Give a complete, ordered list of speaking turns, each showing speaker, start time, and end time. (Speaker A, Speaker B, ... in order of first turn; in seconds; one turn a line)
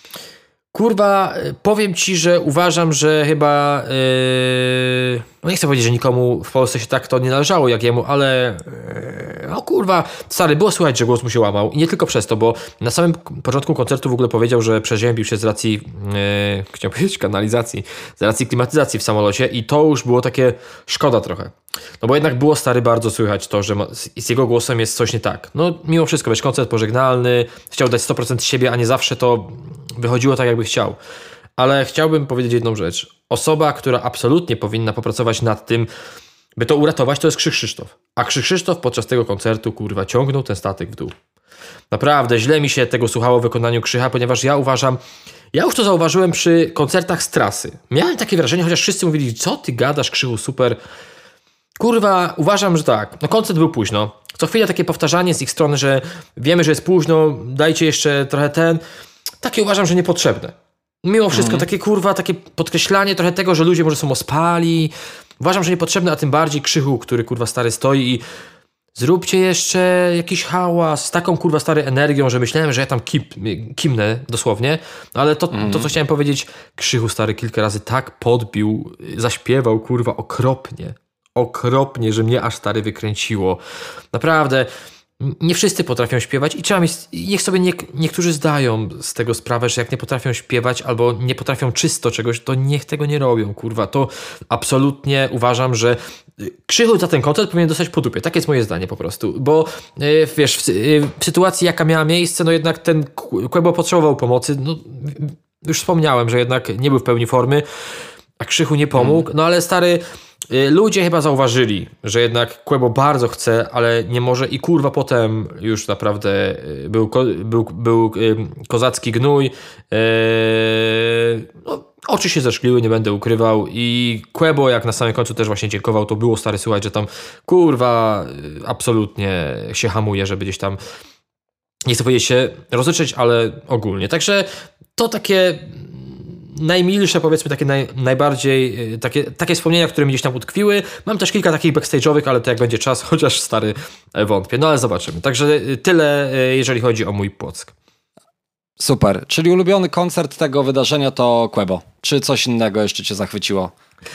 Speaker A: 0.7-31.0
Speaker A: 31.6-35.9
Speaker A: 36.6-41.1
Speaker A: 41.9-45.0
Speaker A: 45.5-50.8
Speaker A: 51.8-58.8
Speaker A: 59.4-68.2
Speaker B: 61.3-61.7
Speaker A: 69.0-83.6
Speaker B: 75.5-75.9
Speaker A: 84.1-107.6
Speaker A: 108.4-130.8
Speaker B: 109.0-109.2
Speaker A: 131.9-147.7
Speaker B: 148.8-153.7